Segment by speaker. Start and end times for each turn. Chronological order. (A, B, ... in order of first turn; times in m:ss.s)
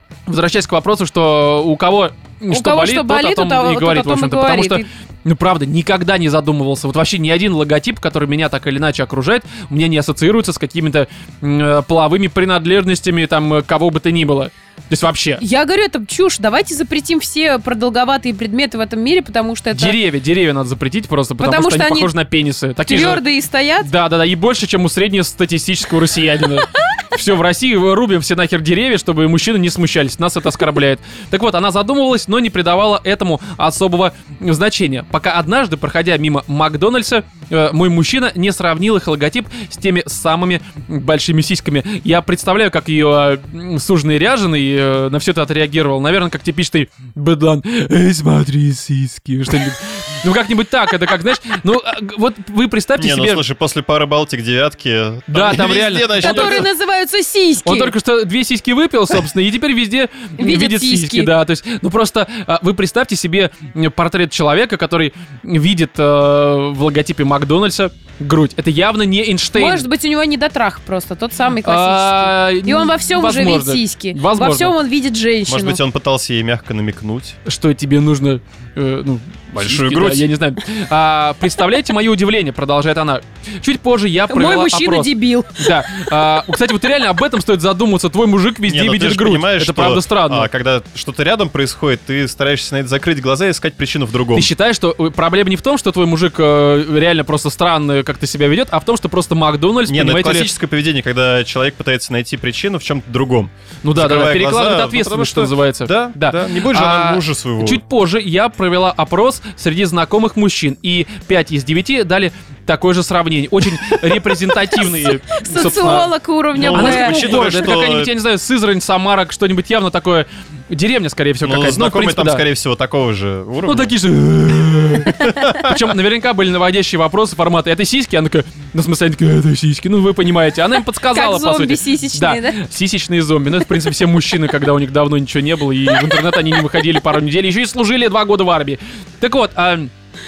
0:00.3-0:15.4 A
0:02.5-0:04.9 B
0:15.4-0:20.0 B
0:19.7-0:23.2 A
0:21.4-0:22.1 B
0:22.9-0:23.9 B
0:23.8-0:53.4 A
0:53.0-0:56.7 C
0:55.3-0:56.6 A
0:56.2-0:57.9 B
0:57.6-1:09.9 A
1:00.4-1:01.3 B
1:09.5-1:15.8 B
1:11.6-1:14.7 A
1:15.5-1:17.4 C
1:17.4-1:30.5 A
1:19.5-1:20.3 C
1:24.3-1:25.5 B
1:28.7-1:34.5 C
1:34.3-1:40.5 A
1:39.9-1:47.8 C
1:43.8-1:56.1 A
1:54.8-1:57.4 B
1:56.5-1:58.1 C
1:56.7-2:02.4 A
2:01.4-2:03.9 C
2:03.6-2:19.9 A
2:05.0-2:05.8 C
2:10.8-2:12.6 B